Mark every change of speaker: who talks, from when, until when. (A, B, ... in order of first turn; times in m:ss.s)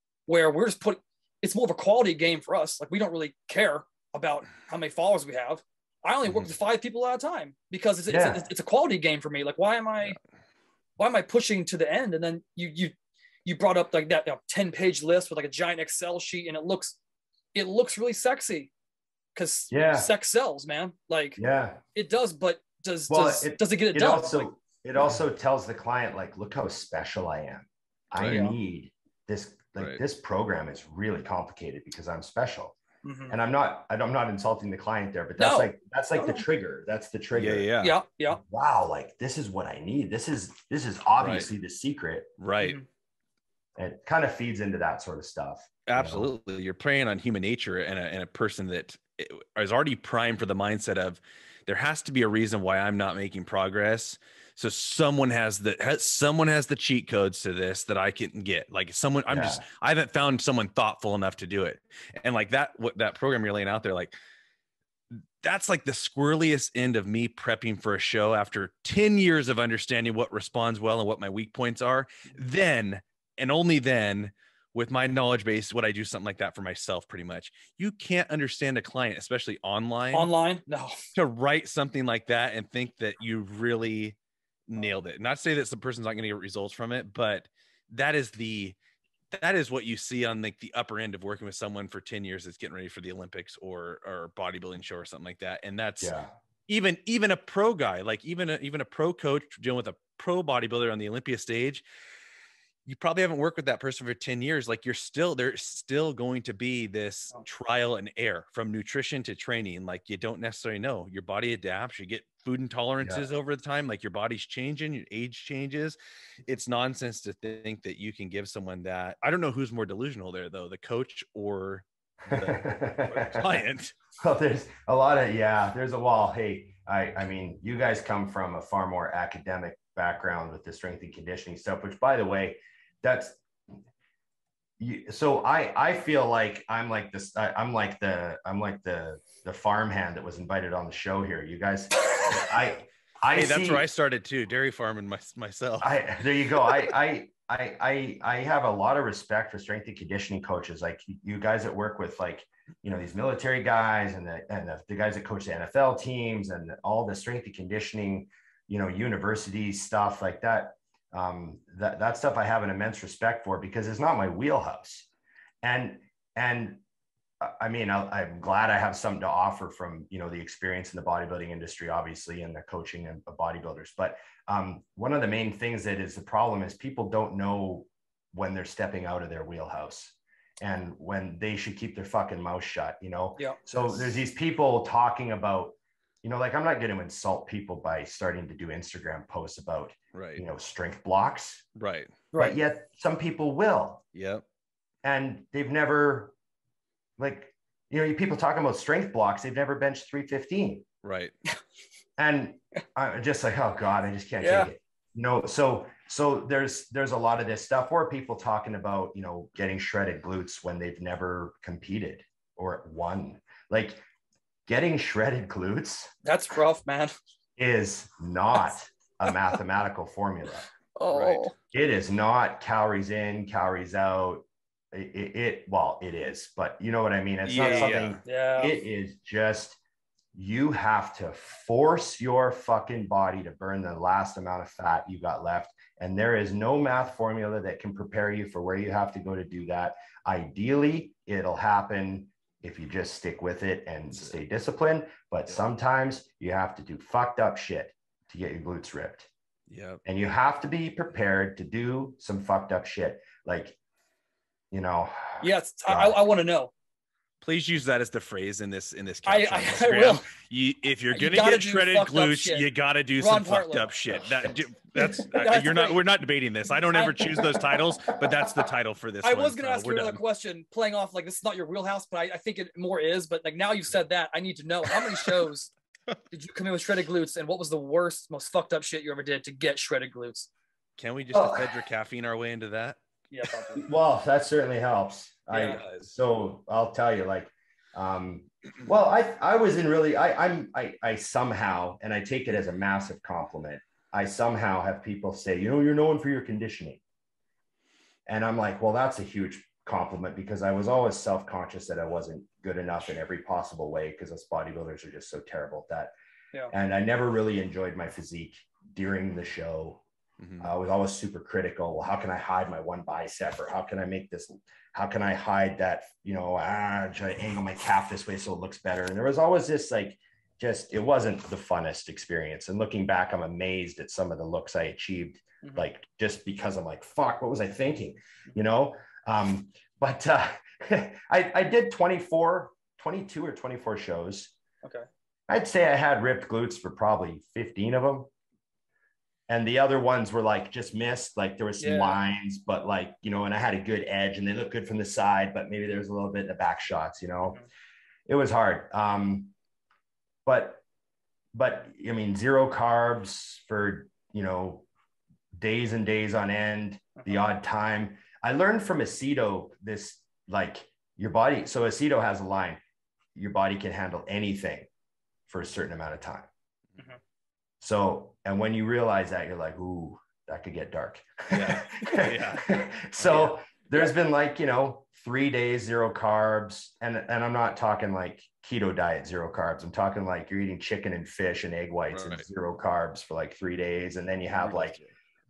0:00.3-0:10.2 A
0:08.1-0:08.4 B
0:11.0-0:12.9 A
0:13.4-0:17.0 A
0:17.5-0:18.7 A
0:19.4-0:21.4 A
0:19.7-0:20.1 B
0:21.4-0:21.8 B
0:21.9-0:24.5 A
0:23.1-0:32.8 B
0:28.2-0:28.5 A
0:33.0-0:33.4 A
0:33.3-0:37.7 B
0:35.4-0:36.4 A
0:37.4-0:38.0 C
0:37.8-0:38.4 A
0:38.3-0:42.3 B
0:41.2-0:41.5 C
0:42.4-0:42.8 C
0:42.6-0:42.9 A
0:43.8-0:46.3 B
0:45.9-1:04.1 C
0:59.3-0:59.6 B
1:05.4-1:20.3 C
1:20.1-1:21.0 A
1:21.2-1:24.2 C
1:24.7-1:28.8 C
1:29.3-1:36.1 C
1:36.0-1:36.3 B
1:36.7-1:41.8 C
1:42.9-2:04.0 C
2:02.3-2:03.6 B
2:04.2-2:13.4 B
2:14.8-2:23.9 B
2:23.4-2:25.9 C
2:25.8-2:45.1 B
2:45.6-2:46.8 B
2:47.4-3:11.7 B
3:10.1-3:10.4 C
3:11.8-3:12.2 C
3:12.4-3:14.0 B
3:14.1-3:14.4 C
3:15.0-3:16.3 B
3:17.2-3:20.9 B
3:21.0-3:21.4 C
3:22.2-3:34.0 B
3:24.4-3:24.7 A
3:34.7-3:36.1 B
3:36.2-3:37.2 A
3:37.6-3:40.7 B
3:41.0-3:41.5 A
3:41.1-3:41.4 C
3:41.7-3:49.8 B
3:47.4-3:48.2 C
3:47.6-3:48.8 A
3:50.3-4:09.3 B
4:09.7-4:10.0 C
4:10.0-4:13.8 B
4:14.7-4:16.2 B
4:15.4-4:16.7 A
4:17.4-4:30.2 C
4:19.3-4:20.3 A
4:21.1-4:22.6 A
4:23.2-4:23.9 A
4:24.1-4:24.6 B
4:25.0-4:26.0 A
4:26.9-4:27.5 A
4:28.1-4:28.6 B
4:29.2-4:35.7 A
4:35.0-4:35.3 C
4:36.3-4:40.5 A
4:41.0-4:43.0 C
4:41.3-4:41.8 B
4:43.3-4:43.8 A
4:43.7-4:57.0 B
4:45.5-4:45.8 A
4:45.7-4:46.1 C
4:58.3-5:06.1 B
5:06.7-5:10.0 B
5:10.4-5:10.7 C
5:10.6-5:34.5 B
5:35.5-5:38.3 B
5:39.5-5:47.6 B
5:41.8-5:42.2 A
5:48.3-5:49.5 B
5:50.4-5:50.8 B
5:51.5-5:54.9 B
5:55.5-6:02.8 B
6:03.4-6:04.9 B
6:05.5-6:06.5 B
6:07.8-6:25.0 B
6:11.5-6:13.6 C
6:22.1-6:22.5 C
6:24.6-6:25.1 C